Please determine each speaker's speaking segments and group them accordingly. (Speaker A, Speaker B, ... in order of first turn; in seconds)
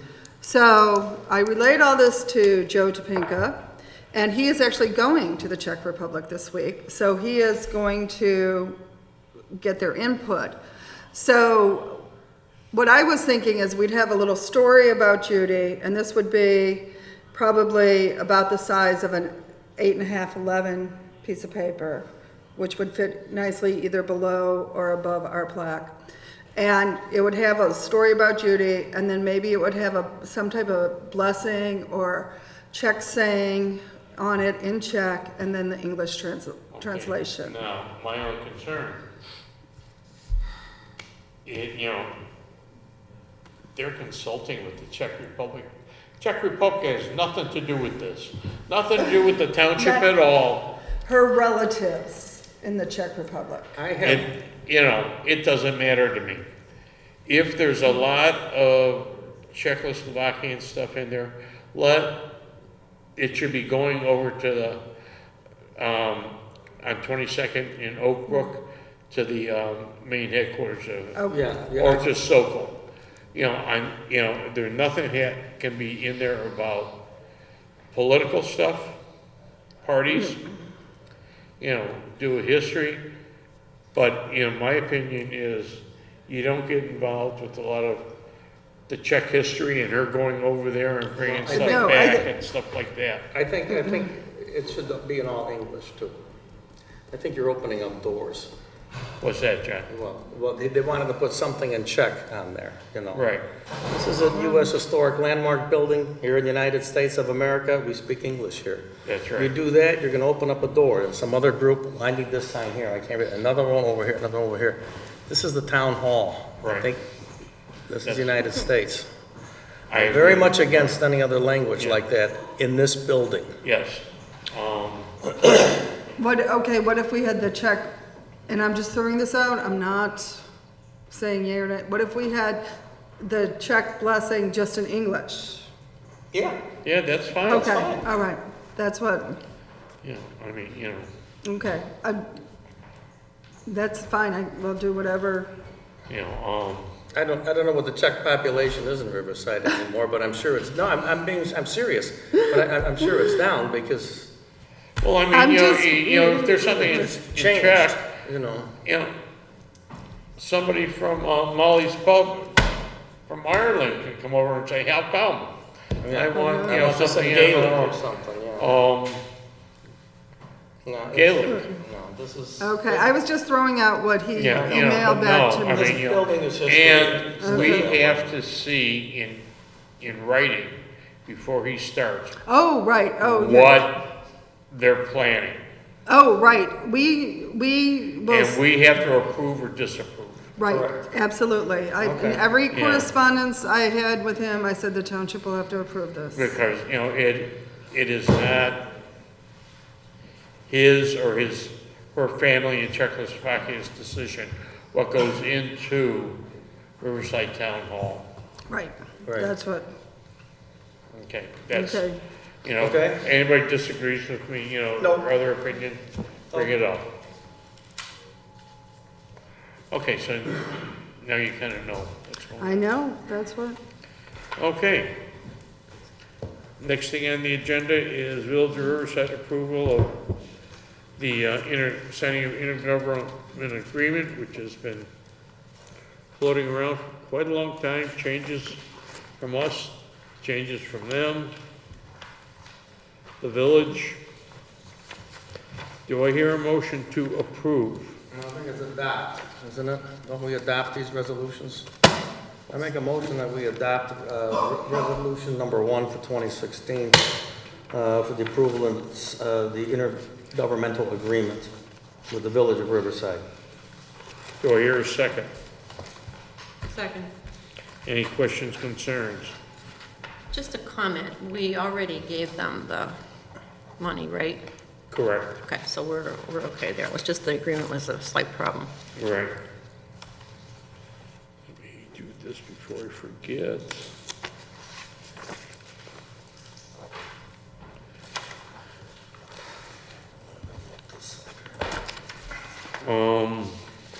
Speaker A: 0.4-3.6, 4.1-8.8, 9.5-10.6, 11.1-12.0, 12.7-25.9, 26.6-37.6, 49.8-50.1, 51.0-53.8, 91.5-92.3, 126.2-127.9, 128.5-130.4, 131.1-132.6, 133.2-135.7, 137.5-139.4, 141.4-142.3, 143.7-145.5, 155.3-157.3, 166.3-166.8, 172.6-176.0, 177.4-177.9, 182.5-183.8, 186.1-188.6, 190.6-196.5, 208.7-209.9, 211.7-212.2, 222.6-223.8
Speaker B: 36.7-39.0, 41.5-42.1, 43.8-50.8, 54.0-56.5, 57.3-62.2, 63.2-64.8, 65.8-72.8, 73.3-77.0, 77.9-79.0, 79.8-80.5, 81.6-83.0, 83.9-88.1, 88.9-93.3, 99.2-99.9, 103.1-103.5, 109.0-109.5, 116.6-116.9, 118.0-118.3, 119.9-121.0, 123.6-125.3, 136.8-137.9, 140.0-141.1, 146.1-146.9, 155.0-158.0, 158.8-159.1, 160.4-162.6, 163.3-168.0, 168.6-169.2, 171.1-171.7, 174.3-179.4, 180.0-182.4, 183.2-184.1, 184.7-185.6, 188.3-190.6, 192.7-193.1, 196.3-198.9, 200.7-206.4, 207.0-208.3, 211.2-212.1, 212.6-217.1, 219.9-222.8, 224.6-225.1, 226.8-230.2, 231.2-235.1, 236.4-238.8, 239.4-241.6, 243.4-244.2, 246.1-248.2, 264.6-265.5, 268.1-269.6, 275.1-275.6, 279.2-279.6, 281.7-284.1, 293.0-293.8
Speaker C: 53.8-54.3, 71.3-72.1, 91.2-92.0, 93.3-96.2, 97.1-98.5, 99.9-103.3, 103.9-117.0, 117.9-119.1, 119.9-123.6, 136.3-136.7, 137.5-138.1, 147.1-154.3, 157.2-158.7, 166.0-168.8, 170.8-173.1, 174.5-175.1, 175.7-178.3, 190.7-191.1, 192.0-192.4, 209.3-209.5, 212.8-213.2, 215.0-215.3, 248.3-251.9, 252.7-257.3, 257.9-261.7, 262.3-263.4, 291.2-291.4
Speaker D: 266.9-267.3, 270.5-273.2, 274.0-274.7, 275.6-278.9